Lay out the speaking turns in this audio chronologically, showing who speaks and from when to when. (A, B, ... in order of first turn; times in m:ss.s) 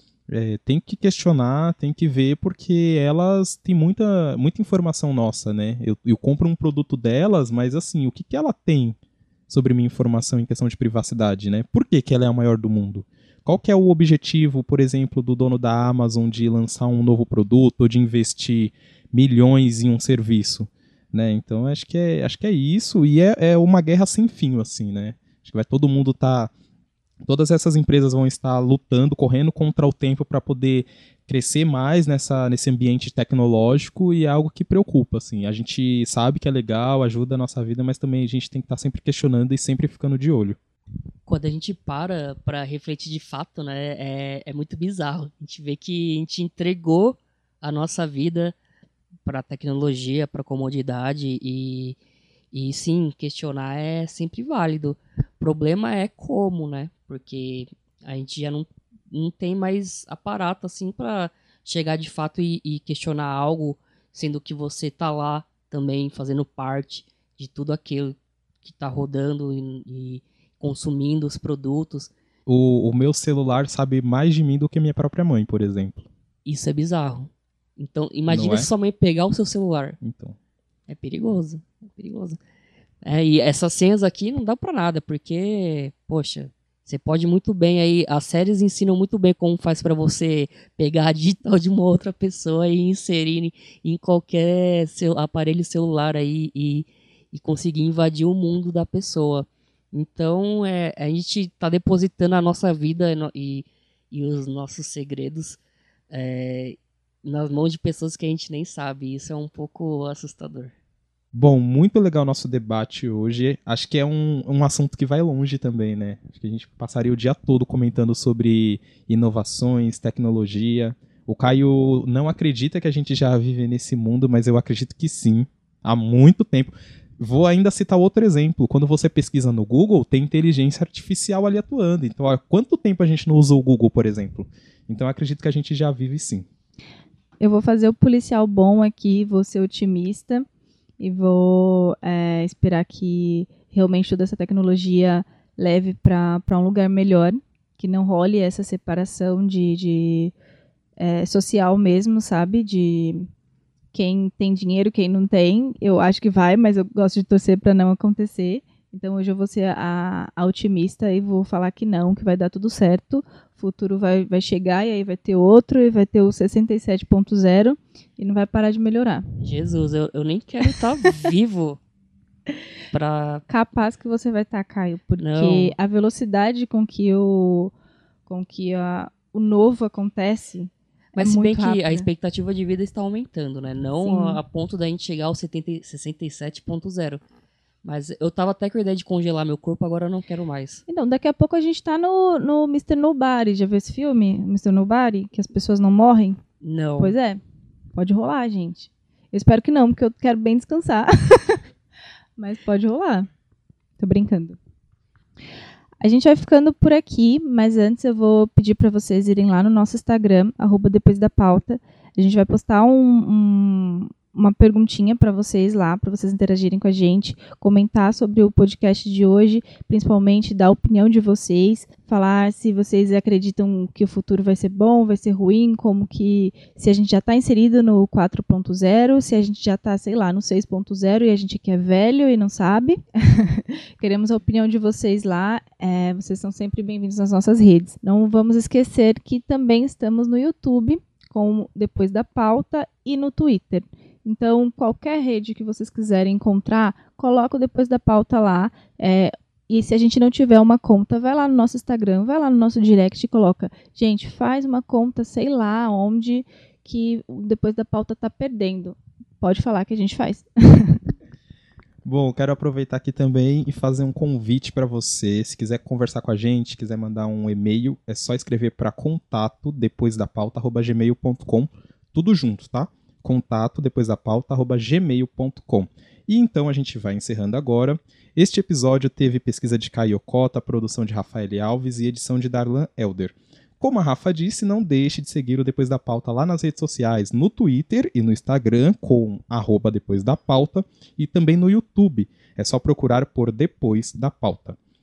0:00.3-0:09.0 A
0:09.5-0:26.5 A
0:27.2-0:40.6 A
0:41.2-0:48.5 B
0:49.2-0:52.0 B
0:52.5-1:12.1 B
1:12.5-1:16.1 A
1:16.4-1:20.0 B
1:18.3-1:18.7 A
1:20.0-1:20.4 A
1:20.9-1:22.4 B
1:23.0-1:45.6 B
1:46.1-1:50.7 B
1:51.3-2:16.5 A
2:17.4-2:20.5 C
2:21.0-2:30.3 C
2:31.0-2:33.3 C
2:33.9-2:49.4 C
2:49.4-2:51.8 B
2:52.9-2:53.4 B
2:53.5-2:57.7 C
2:55.2-2:55.8 B
2:58.2-3:02.1 C
3:01.2-3:07.2 B
3:04.0-3:04.4 C
3:07.8-3:10.8 B
3:10.9-3:16.4 C
3:16.6-3:17.2 B
3:17.0-3:17.4 C
3:17.9-3:21.6 C
3:22.4-3:23.3 C
3:24.0-3:24.6 C
3:26.0-4:21.0 C
4:22.0-4:54.8 A